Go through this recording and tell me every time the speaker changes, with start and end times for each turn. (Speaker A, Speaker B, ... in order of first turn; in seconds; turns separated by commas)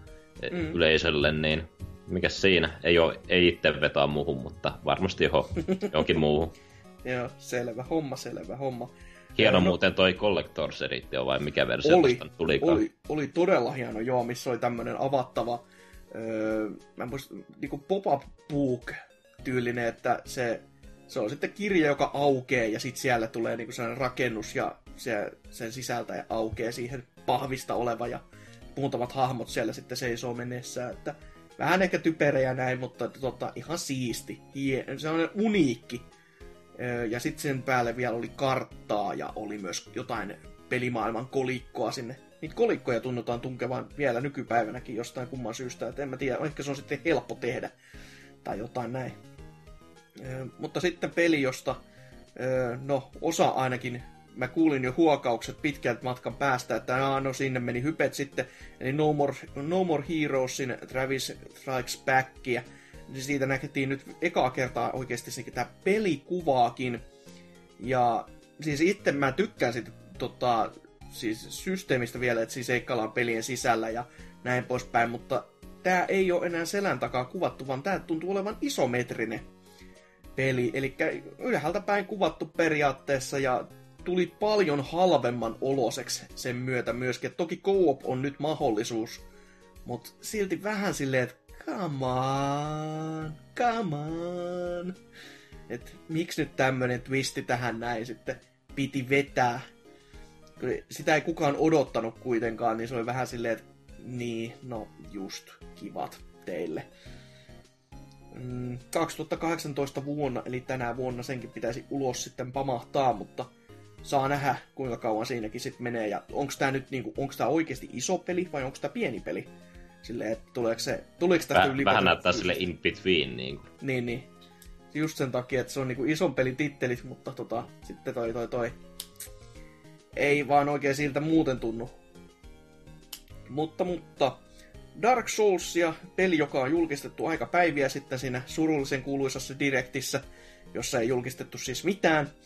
Speaker A: 0.4-6.5, Speaker B: 0.5-0.8, Speaker B: 7.0-9.8, Speaker A: 9.4-12.8, Speaker B: 11.8-15.6, Speaker B: 16.1-28.2, Speaker B: 28.8-36.0, Speaker B: 36.8-47.7, Speaker B: 48.4-49.2, Speaker B: 50.2-51.8, Speaker B: 52.4-67.0, Speaker B: 67.8-79.5, Speaker B: 80.4-89.2, Speaker B: 89.9-95.0, Speaker B: 95.7-99.6, Speaker B: 100.6-106.9, Speaker B: 108.3-113.5, Speaker B: 114.0-119.5, Speaker B: 120.0-122.6, Speaker A: 121.5-123.7, Speaker B: 123.8-124.3, Speaker B: 124.9-128.7, Speaker B: 130.2-131.9, Speaker B: 133.5-134.4, Speaker B: 135.0-140.2, Speaker B: 140.7-142.3